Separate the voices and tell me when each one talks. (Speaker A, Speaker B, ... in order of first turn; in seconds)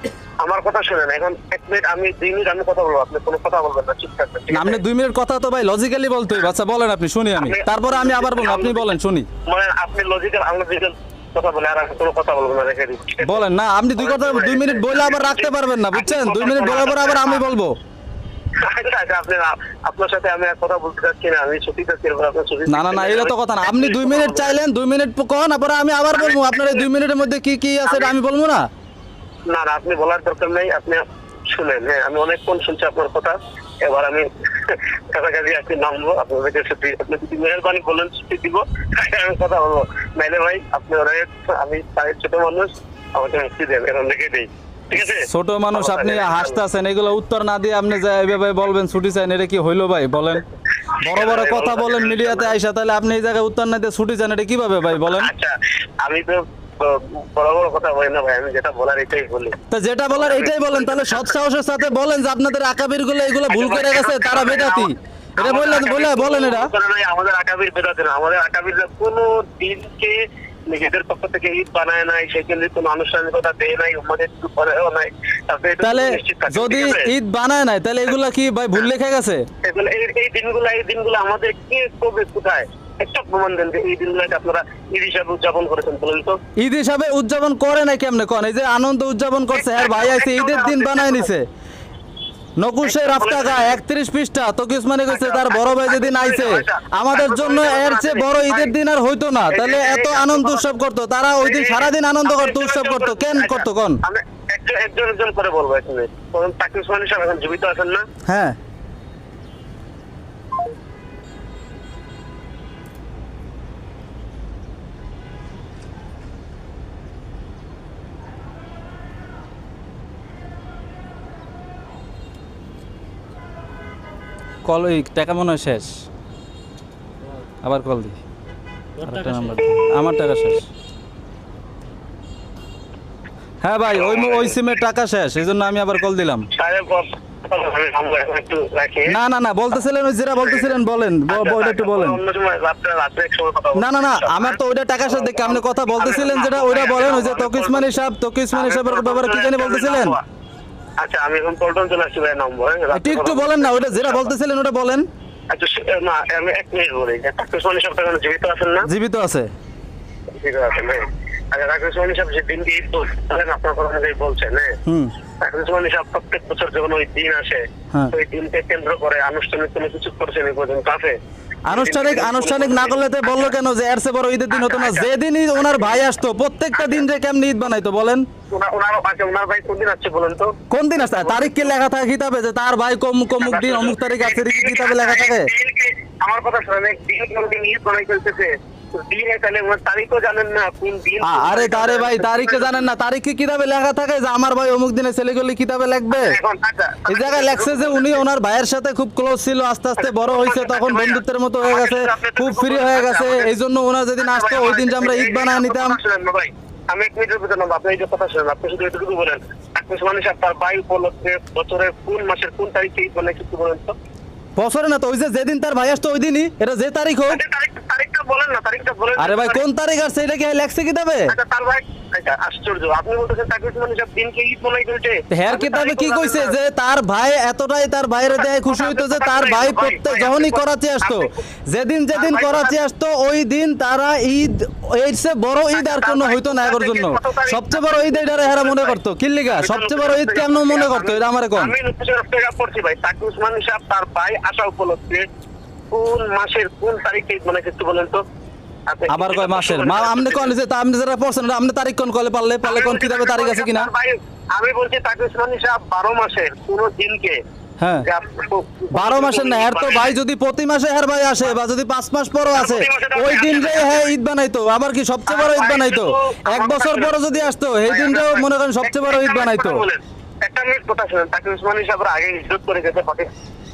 Speaker A: 0.4-4.8, 7.4-8.9, 9.4-13.4, 14.0-17.4, 18.6-24.5, 26.1-26.9, 27.9-28.1, 29.5-46.6, 51.0-52.5, 55.2-59.6, 60.1-61.3, 63.5-77.1, 79.6-86.4, 89.5-91.3, 92.8-93.7, 95.1-98.7, 99.5-100.7, 101.4-108.0, 133.9-134.5, 136.5-139.2, 140.5-140.8, 141.3-144.6, 145.1-147.9, 148.5-150.2, 151.0-154.3, 155.5-158.9, 160.3-164.8, 165.4-173.5, 174.5-175.1, 176.8-177.0, 178.5-181.7, 183.4-192.8, 196.1-198.2, 200.0-203.5, 204.2-214.0, 217.3-219.6, 221.3-226.5, 228.3-231.4, 232.1-232.8, 235.7-239.0, 239.5-245.2, 245.9-248.2, 248.9-250.5, 252.6-257.4, 258.0-260.1, 262.5-264.1, 265.3-267.2, 267.9-273.3
Speaker B: 4.5-9.3, 13.2-17.8, 22.7-28.7, 44.9-50.4, 51.0-55.3, 59.7-66.7, 75.8-79.4, 86.6-91.5, 92.6-104.0, 108.2-108.6, 124.6-126.0, 127.6-128.2, 129.0-130.6, 133.6-136.5, 139.1-142.2, 143.7-150.2, 152.9-155.1, 158.8-159.5, 164.8-165.1, 171.7-178.3, 180.7-185.5, 191.2-196.4, 197.1-206.0, 214.6-217.4, 219.2-221.3, 225.3-241.7, 249.1-253.9, 257.8-258.0, 258.9-269.8